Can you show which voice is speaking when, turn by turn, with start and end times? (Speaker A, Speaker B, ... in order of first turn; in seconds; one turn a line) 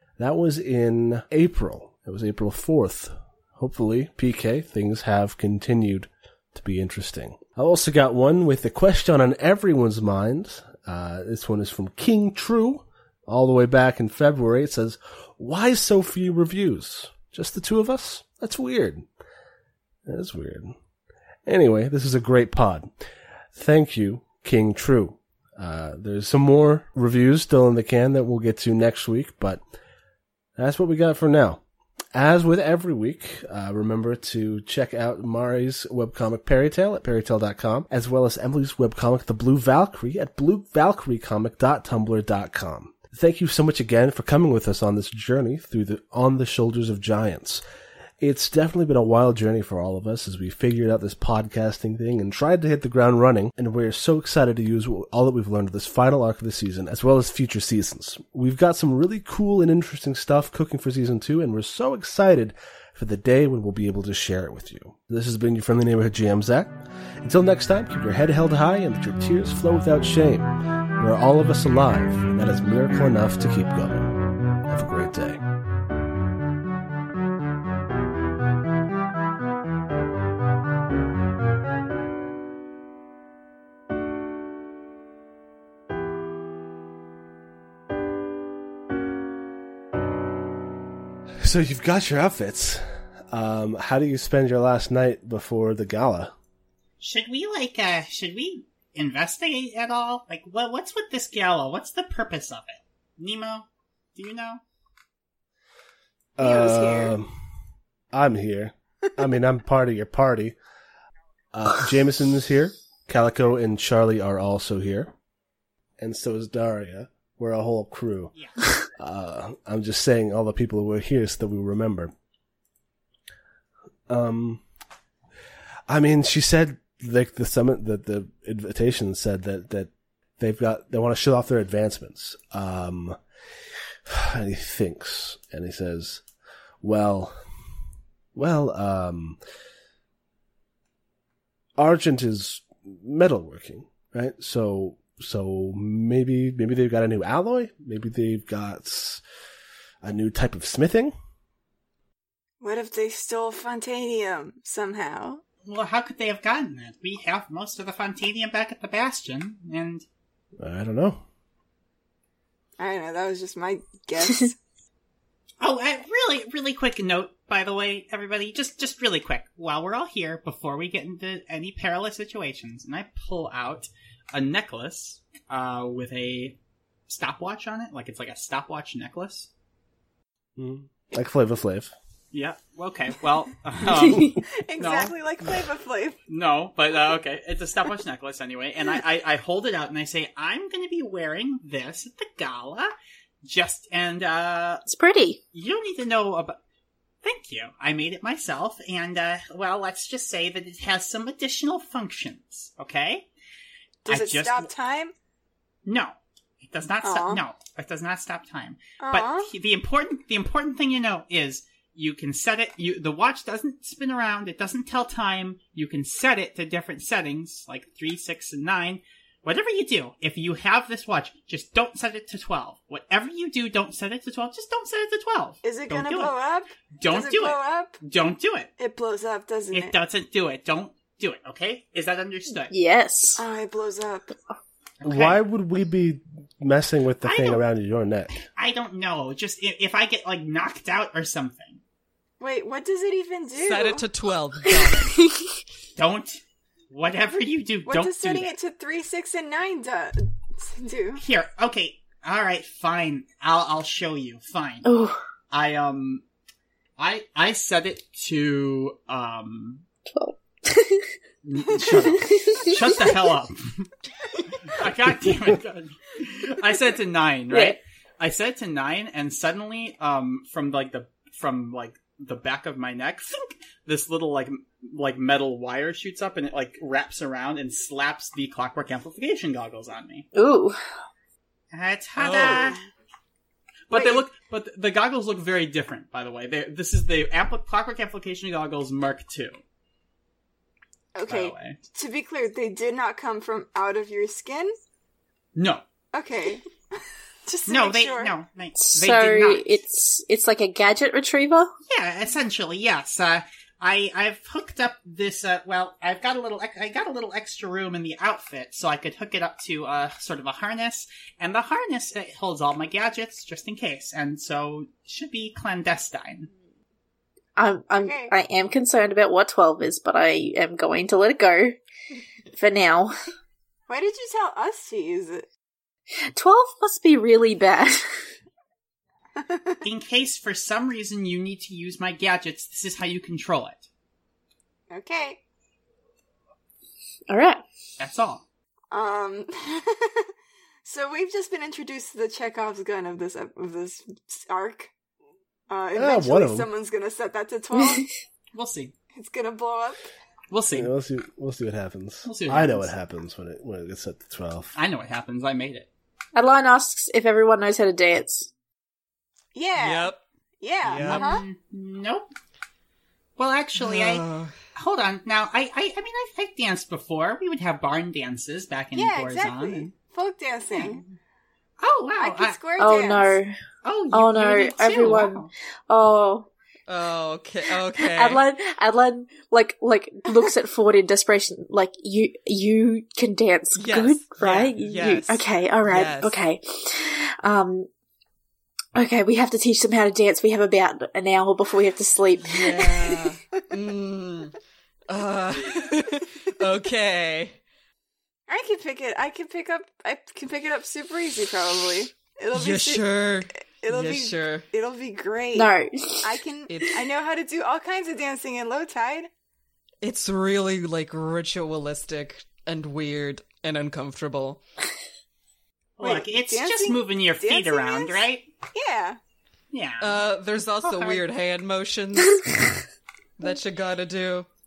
Speaker A: 0.2-19.1
Speaker A: 20.1-20.7
Speaker A: 21.4-22.9
Speaker A: 23.5-29.6
Speaker A: 30.6-31.6
Speaker A: 32.1-47.6
Speaker A: 48.2-74.1
Speaker A: 74.7-75.4
Speaker A: 91.4-96.3
Speaker B: 97.0-104.6
Speaker A: 106.4-107.3
Speaker C: 106.4-107.1
Speaker A: 108.1-110.5
Speaker A: 111.5-115.1
Speaker A: 116.0-118.3
Speaker A: 119.0-122.1
Speaker A: 124.1-124.6
Speaker A: 125.9-133.2
Speaker A: 134.1-136.2
Speaker A: 136.8-137.3
Speaker A: 138.3-139.4
Speaker A: 141.8-149.2
Speaker A: 150.0-151.1
Speaker C: 152.6-155.4
Speaker B: 155.6-160.0
Speaker A: 160.6-161.2
Speaker C: 162.8-164.6
Speaker B: 165.6-176.6
Speaker B: 177.1-179.5
Speaker A: 180.6-181.9
Speaker B: 182.3-185.1
Speaker C: 184.2-186.2
Speaker B: 186.3-192.9
Speaker B: 193.4-194.8
Speaker D: 194.9-195.4
Speaker B: 195.5-196.6
Speaker B: 197.2-203.3
Speaker C: 204.0-205.1
Speaker B: 204.1-204.7
Speaker B: 205.8-226.3
Speaker C: 207.0-207.4
Speaker C: 209.0-209.5
Speaker C: 225.6-228.0
Speaker B: 227.0-228.7
Speaker C: 228.8-229.9
Speaker B: 229.7-232.7
Speaker D: 232.7-233.4
Speaker C: 233.4-234.3
Speaker B: 235.0-235.4
Speaker A: 235.0-238.4
Speaker B: 237.2-237.6
Speaker B: 238.5-241.8
Speaker C: 242.4-244.1
Speaker E: 243.6-245.2
Speaker B: 245.9-248.5
Speaker C: 247.8-251.2
Speaker B: 251.2-254.9
Speaker D: 254.8-255.2
Speaker B: 255.5-256.2
Speaker B: 257.0-259.8
Speaker D: 260.1-261.1
Speaker B: 261.4-263.9
Speaker C: 261.8-262.1
Speaker D: 261.9-263.0
Speaker B: 264.6-280.2
Speaker D: 267.5-267.8
Speaker D: 280.3-280.8
Speaker B: 281.7-282.8
Speaker E: 282.2-282.7
Speaker C: 282.3-282.7
Speaker B: 283.9-289.6
Speaker C: 283.9-284.2
Speaker C: 291.1-294.7
Speaker B: 291.3-291.8
Speaker B: 295.5-295.8
Speaker C: 296.1-296.6
Speaker C: 297.4-298.3
Speaker B: 297.7-299.7
Speaker D: 298.8-301.7
Speaker B: 301.9-316.5
Speaker D: 317.6-321.8
Speaker C: 318.0-318.3
Speaker D: 322.5-323.1
Speaker C: 323.9-325.4
Speaker D: 326.3-328.2
Speaker C: 329.4-329.8
Speaker B: 329.8-333.9
Speaker C: 334.9-335.4
Speaker D: 337.3-337.6
Speaker B: 338.0-338.4
Speaker C: 338.9-340.3
Speaker C: 340.8-344.9
Speaker C: 345.7-348.1
Speaker A: 345.9-346.7
Speaker D: 347.8-348.0
Speaker B: 348.5-348.9
Speaker C: 349.1-350.0
Speaker B: 350.5-350.9
Speaker A: 350.7-354.7
Speaker B: 352.2-352.9
Speaker B: 354.7-355.9
Speaker D: 356.3-358.5
Speaker C: 359.5-361.4
Speaker E: 359.8-360.2
Speaker B: 360.8-362.3
Speaker B: 363.4-364.2
Speaker E: 363.8-364.6
Speaker B: 364.7-369.9
Speaker C: 368.9-371.0
Speaker B: 370.7-371.1
Speaker B: 371.8-372.6
Speaker C: 372.2-373.4
Speaker D: 372.8-373.6
Speaker B: 373.8-375.5
Speaker D: 374.1-376.5
Speaker E: 376.9-378.4
Speaker D: 377.8-387.9
Speaker E: 383.7-386.4
Speaker D: 388.9-393.2
Speaker E: 392.4-394.5
Speaker E: 395.1-397.6
Speaker C: 398.5-403.2
Speaker E: 402.5-404.6
Speaker C: 403.7-405.7
Speaker D: 405.5-406.4
Speaker C: 406.2-409.3
Speaker E: 406.7-407.0
Speaker E: 410.0-414.6
Speaker B: 416.0-418.4
Speaker C: 416.0-419.2
Speaker B: 419.7-420.2
Speaker E: 420.0-422.8
Speaker B: 420.8-421.2
Speaker E: 423.4-424.5